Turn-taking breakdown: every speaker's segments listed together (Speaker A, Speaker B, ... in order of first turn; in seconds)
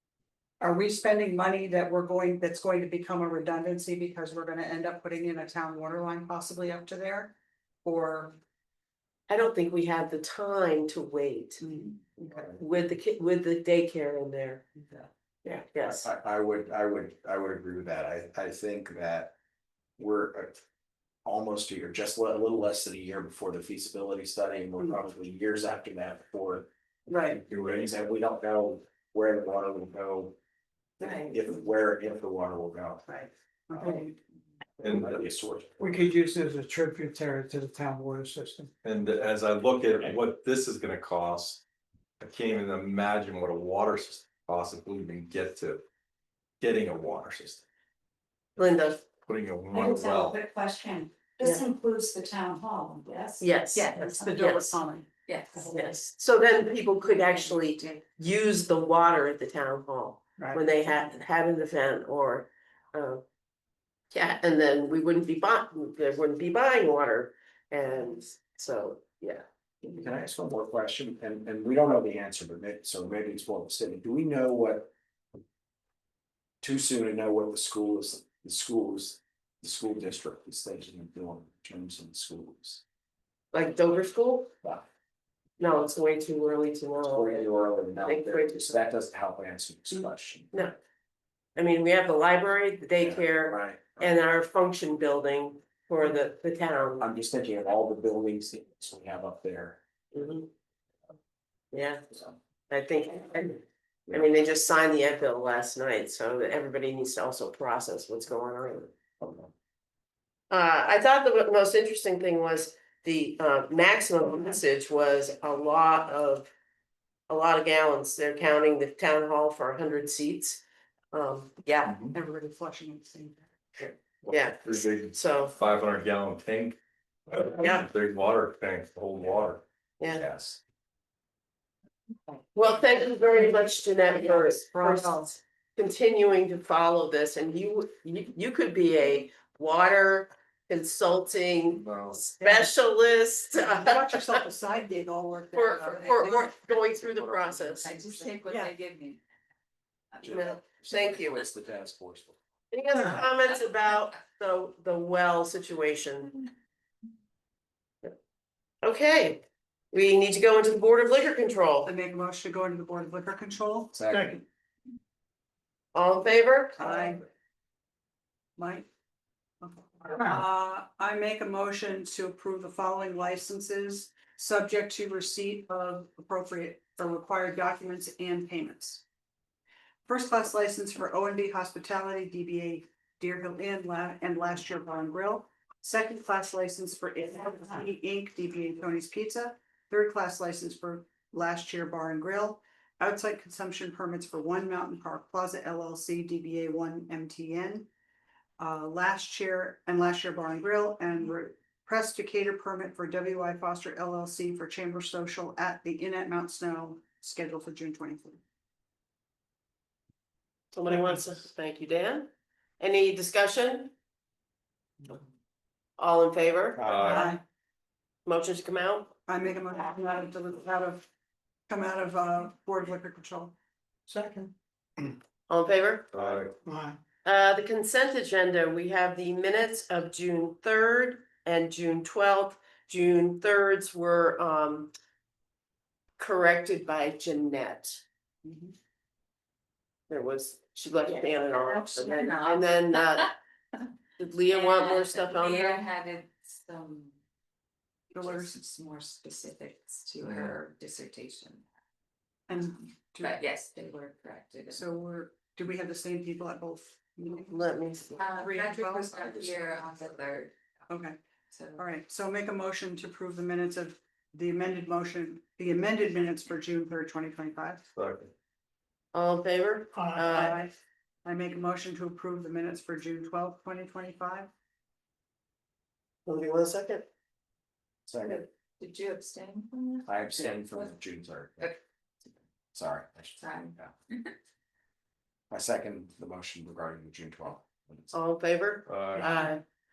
Speaker A: 0.6-8.4, 11.6-11.9, 27.1-27.4, 31.0-31.3, 33.1-34.1, 54.2-55.7, 122.1-123.4, 134.1-135.3, 142.4-142.7, 143.6-146.5, 147.9-148.7, 161.8-163.9, 166.8-167.2, 168.6-168.9, 169.6-179.0, 180.1-197.9, 198.6-208.4, 217.1-217.4, 219.3-221.1, 221.7-223.5, 238.4-238.7, 248.1-248.6, 252.5-253.4, 254.7-257.6, 258.4-259.6, 260.9-261.2, 261.8-267.8, 270.3-270.7, 271.2-274.5
Speaker B: 9.3-11.6, 12.5-14.7, 15.4-16.1, 48.6-49.0, 51.4-51.6, 53.4-54.8, 55.6-63.2, 64.1-69.4, 83.5-84.5, 85.6-87.5, 88.0-88.7, 91.5-97.1, 100.1-100.5, 101.7-102.0, 102.7-108.9, 110.5-116.5, 117.3-122.0, 123.8-125.5, 127.5-127.9, 130.0-130.2, 132.5-144.4, 145.5-147.9, 150.3-151.4, 152.7-156.4, 158.8-159.4, 159.9-161.9, 165.9-166.8, 210.7-212.3, 212.8-213.9, 216.0-216.8, 218.2-219.1, 225.5-226.1, 227.2-234.9, 236.2-238.0, 240.1-243.3, 244.2-245.8, 257.5-258.3, 269.1-270.6, 276.2-277.1, 288.1-289.6
Speaker C: 12.2-12.6, 15.8-19.3, 20.0-20.6, 21.2-26.7, 27.2-30.4, 31.0-33.0, 34.9-35.8, 69.8-74.9, 76.6-82.8, 87.0-90.5, 93.0-94.1, 97.0-99.8, 109.2-109.5, 130.1-130.6, 150.2-152.4, 163.9-164.4, 278.1-278.4, 280.1-281.7, 282.7-283.9, 285.5-288.1
Speaker D: 27.5-27.9, 34.8-35.2, 38.8-41.6, 42.2-45.8, 46.6-47.6, 49.2-50.4, 121.9-122.1, 124.2-126.8, 127.3-129.6, 141.8-142.2, 216.8-217.3, 226.1-226.5, 267.9-268.3, 288.9-289.3
Speaker E: 35.8-38.7, 224.1-224.5, 226.6-227.0
Speaker F: 49.7-54.6, 55.2-55.9, 57.1-57.9, 145.8-146.5, 147.8-149.2, 241.0-243.3, 244.5-247.1, 248.1-251.6, 253.2-254.8, 258.1-260.5, 261.5-261.8, 278.2-280.9, 283.4-284.3